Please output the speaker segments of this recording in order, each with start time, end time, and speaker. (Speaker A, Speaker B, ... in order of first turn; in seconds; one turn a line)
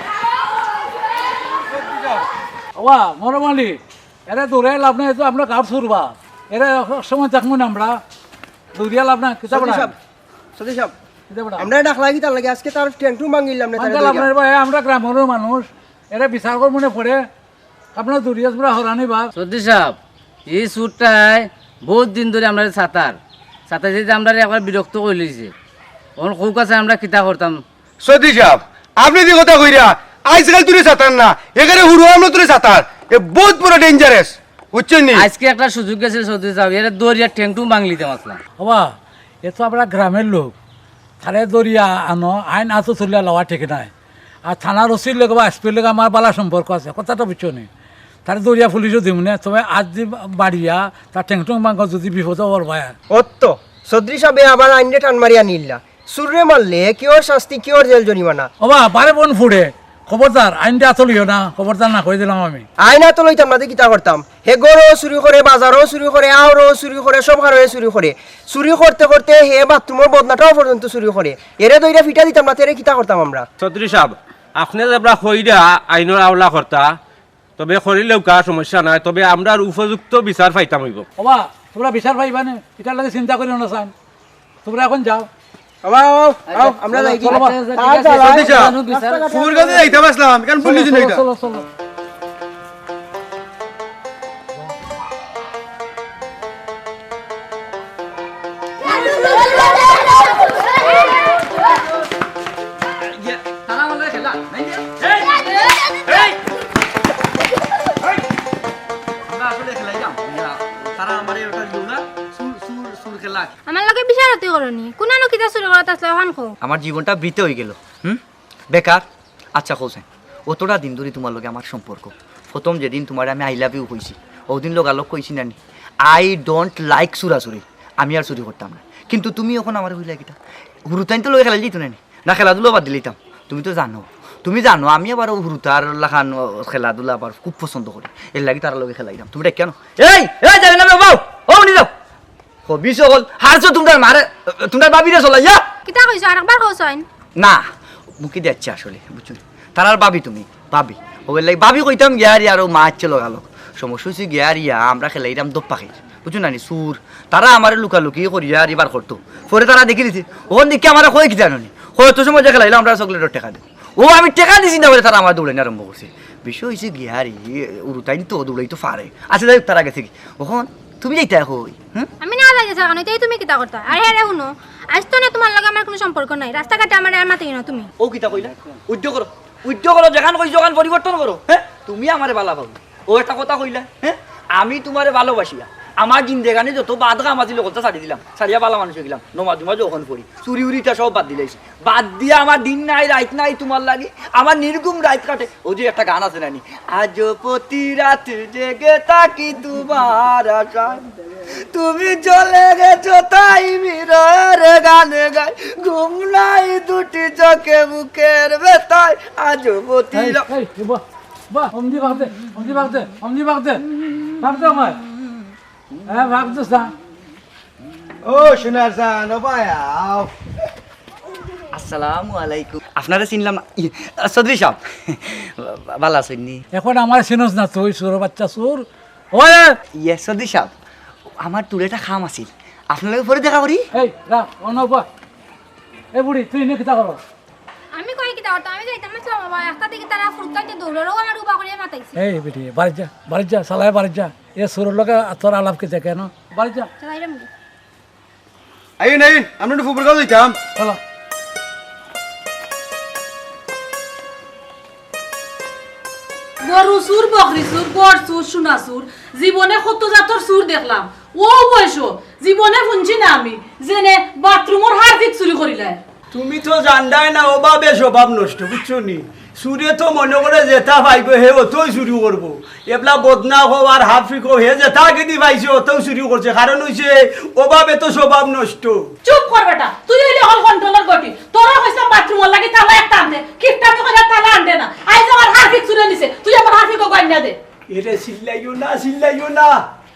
Speaker A: 1.7-2.2
Speaker B: 2.8-3.8
Speaker B: 4.3-8.0
Speaker B: 8.7-9.9
Speaker C: 9.5-9.9
Speaker C: 10.6-10.9
Speaker B: 11.3-11.7
Speaker C: 11.6-14.3
Speaker B: 13.8-17.2
Speaker B: 17.9-19.3
Speaker D: 19.3-23.2
Speaker D: 23.7-25.5
Speaker D: 26.2-27.6
Speaker A: 28.0-35.2
Speaker D: 35.1-38.4
Speaker B: 38.6-38.9
Speaker B: 39.4-40.5
Speaker B: 41.2-43.9
Speaker B: 44.5-47.7
Speaker B: 48.2-52.9
Speaker C: 53.1-58.5
Speaker B: 58.6-62.7
Speaker C: 62.8-73.5
Speaker E: 73.6-77.0
Speaker E: 77.6-81.1
Speaker B: 81.2-83.9
Speaker B: 84.6-85.3
Speaker C: 85.8-90.0
Speaker D: 86.5-89.3
Speaker B: 86.9-88.1
Speaker A: 88.2-91.2
Speaker B: 90.6-91.7
Speaker F: 99.3-99.8
Speaker F: 102.8-106.4
Speaker F: 107.8-108.2
Speaker F: 109.2-113.5
Speaker G: 113.7-116.5
Speaker F: 116.6-130.3
Speaker F: 130.9-141.9
Speaker F: 142.6-145.7
Speaker G: 145.9-147.0
Speaker F: 147.4-172.1
Speaker G: 172.2-177.9
Speaker F: 178.0-210.5
Speaker B: 210.1-213.8
Speaker F: 214.0-214.3
Speaker B: 214.4-215.0
Speaker B: 216.1-216.9
Speaker A: 218.3-219.0
Speaker F: 218.3-220.3
Speaker F: 221.7-226.6
Speaker B: 226.7-229.8
Speaker F: 229.9-230.7
Speaker F: 231.4-233.8
Speaker B: 233.9-235.1
Speaker B: 236.1-237.2
Speaker G: 237.9-242.1
Speaker B: 242.2-246.9
Speaker G: 247.0-247.5
Speaker A: 249.0-250.6
Speaker H: 256.6-266.0
Speaker I: 266.3-279.1
Speaker H: 279.2-287.6
Speaker I: 287.9-289.8